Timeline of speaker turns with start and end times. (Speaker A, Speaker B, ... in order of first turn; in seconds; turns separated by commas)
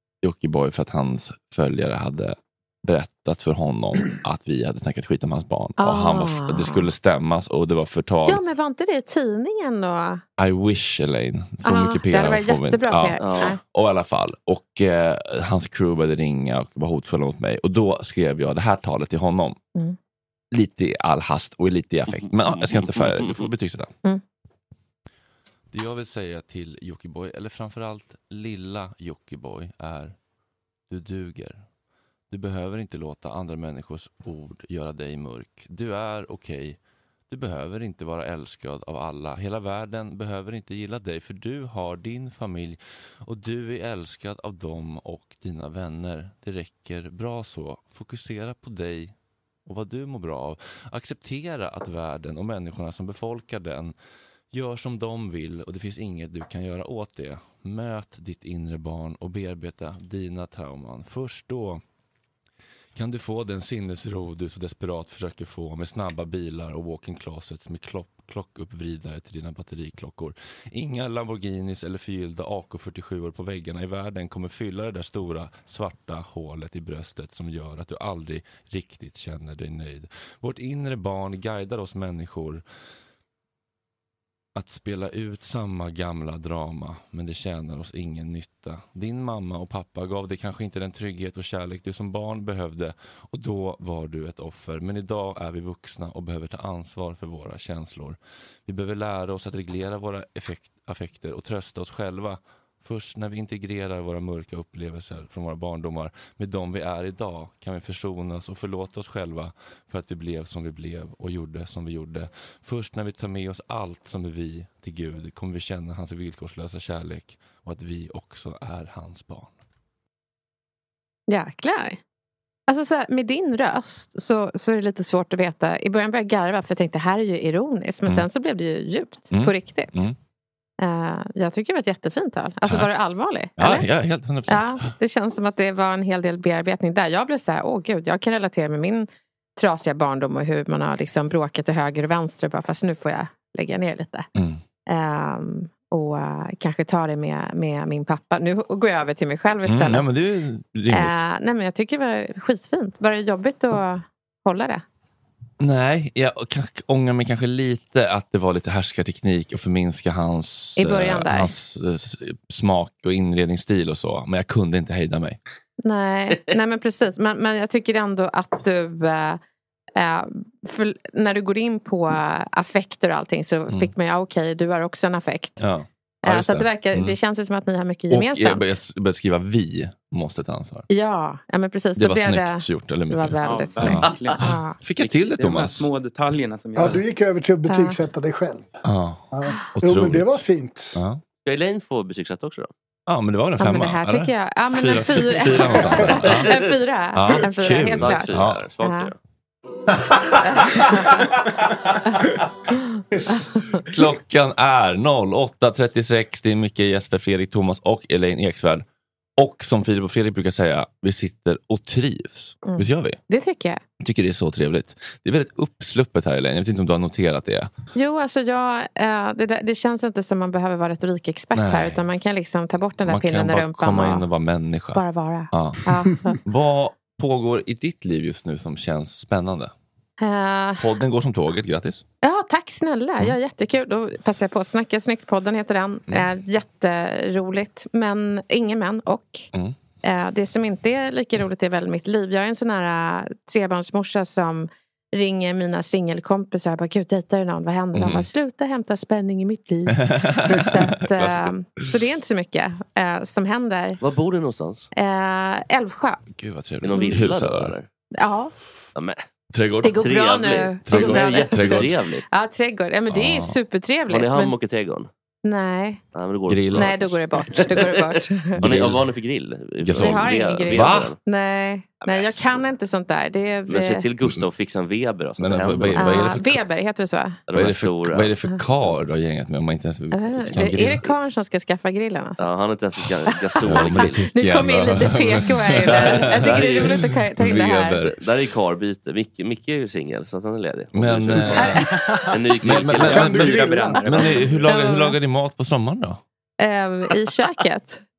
Speaker A: 0.2-8.4, Speaker B: 5.8-6.9, Speaker B: 8.2-10.2, Speaker A: 10.4-19.6, Speaker B: 11.6-13.6, Speaker C: 13.2-13.6, Speaker A: 20.5-23.9, Speaker C: 22.1-23.5, Speaker A: 25.7-30.1, Speaker A: 30.9-31.6, Speaker A: 32.3-36.8, Speaker A: 37.3-49.1, Speaker A: 49.6-53.9, Speaker A: 54.5-61.8, Speaker A: 62.9-82.6, Speaker A: 84.5-119.5, Speaker B: 121.3-122.0, Speaker B: 122.7-130.0, Speaker A: 129.3-130.1, Speaker B: 130.8-133.8, Speaker A: 132.6-132.9, Speaker A: 133.6-134.9, Speaker B: 134.5-144.3, Speaker A: 144.3-144.6, Speaker B: 144.9-150.0, Speaker A: 149.6-151.2, Speaker B: 150.9-154.8, Speaker A: 155.6-165.4, Speaker B: 160.8-161.5, Speaker B: 165.8-169.4, Speaker B: 169.9-175.6, Speaker A: 175.6-177.2, Speaker B: 176.2-178.7, Speaker A: 178.1-180.9, Speaker B: 180.9-184.8, Speaker A: 181.9-185.9, Speaker D: 183.4-184.4, Speaker D: 185.3-187.0, Speaker E: 186.8-188.7, Speaker B: 187.7-188.0, Speaker A: 188.8-190.4, Speaker E: 189.3-191.0, Speaker A: 190.9-191.2, Speaker C: 191.4-192.7, Speaker A: 193.1-196.6, Speaker B: 193.6-199.1, Speaker A: 197.1-198.7, Speaker C: 197.9-199.2, Speaker B: 200.5-201.3, Speaker B: 203.4-203.8, Speaker A: 203.8-208.8, Speaker A: 209.4-213.2, Speaker B: 212.6-213.8, Speaker A: 214.0-217.7, Speaker B: 217.9-224.2, Speaker A: 221.5-222.0, Speaker A: 223.0-229.7, Speaker B: 224.9-226.4, Speaker B: 230.2-230.9, Speaker A: 230.8-232.0, Speaker B: 232.2-239.5, Speaker B: 240.0-254.0, Speaker A: 247.9-248.3, Speaker A: 249.9-251.9, Speaker C: 254.0-254.9, Speaker B: 254.9-256.2, Speaker A: 256.3-257.7, Speaker C: 256.8-257.9, Speaker B: 258.2-258.5, Speaker C: 258.9-259.2, Speaker A: 259.5-260.2, Speaker B: 259.8-264.6, Speaker C: 259.9-262.2, Speaker A: 260.8-261.9, Speaker A: 263.1-263.6, Speaker C: 264.1-265.1, Speaker B: 265.4-266.0, Speaker C: 266.1-271.2, Speaker A: 266.5-267.7, Speaker B: 266.7-268.6, Speaker A: 268.6-269.0, Speaker A: 269.8-271.1, Speaker B: 270.0-274.1, Speaker C: 272.0-272.7, Speaker C: 273.7-276.3, Speaker A: 275.4-276.6, Speaker B: 275.9-277.4, Speaker C: 277.5-278.3, Speaker A: 277.5-281.1, Speaker B: 280.1-282.4, Speaker C: 282.4-284.2, Speaker A: 283.6-288.1, Speaker B: 283.8-288.0, Speaker C: 285.8-287.1, Speaker C: 288.1-294.3, Speaker A: 290.9-291.9, Speaker A: 292.6-296.2, Speaker E: 293.0-294.0, Speaker D: 293.4-293.9, Speaker B: 294.6-295.1, Speaker B: 296.6-298.1